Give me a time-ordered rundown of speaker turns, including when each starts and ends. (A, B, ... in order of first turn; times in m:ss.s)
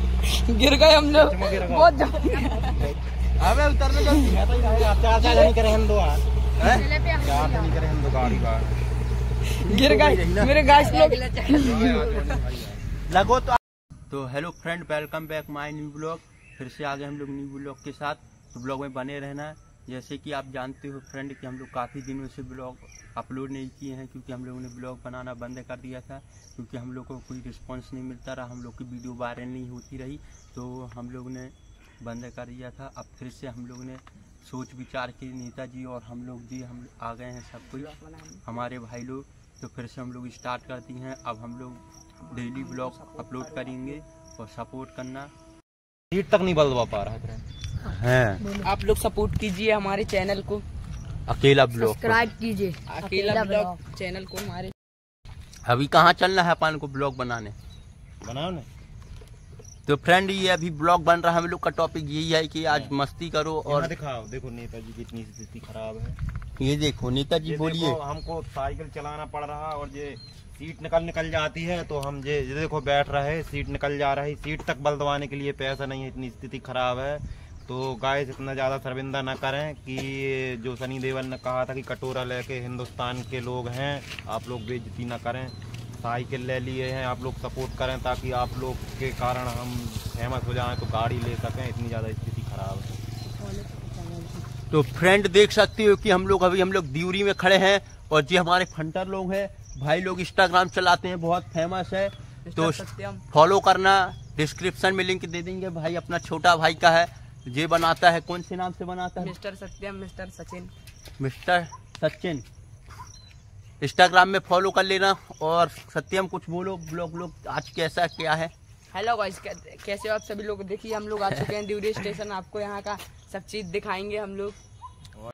0:00.2-0:02.8 A
0:01.2-0:01.9 B
0:03.4-0:04.4 C
0:04.1-0:08.8 B
0:06.6-0:06.8 C
0:06.6-0:07.7 D
0:09.6-0:12.2 A
0:09.6-0:10.5 C
0:10.7-0:12.3 D
0:11.5-0:12.8 B
0:13.1-0:37.9 C
0:37.7-0:38.6 A
0:38.4-0:45.3 C
0:42.2-0:44.0 A
0:46.1-0:47.4 B
0:47.8-0:48.7 D
0:47.9-0:48.4 C
0:48.6-0:50.6 A
0:51.3-0:52.3 C
0:51.7-0:53.8 D
0:52.9-0:54.7 A
0:55.6-0:57.5 C
0:58.2-0:58.7 B
0:59.8-1:03.9 C
1:02.7-1:02.9 B
1:03.6-1:06.2 B
1:06.6-1:08.0 C
1:07.4-1:33.0 B
1:33.3-1:34.4 D
1:34.7-1:49.3 C
1:42.5-1:43.2 A
1:49.2-1:50.7 A
1:51.2-1:52.4 C
1:53.8-1:58.5 C
1:58.9-2:04.6 A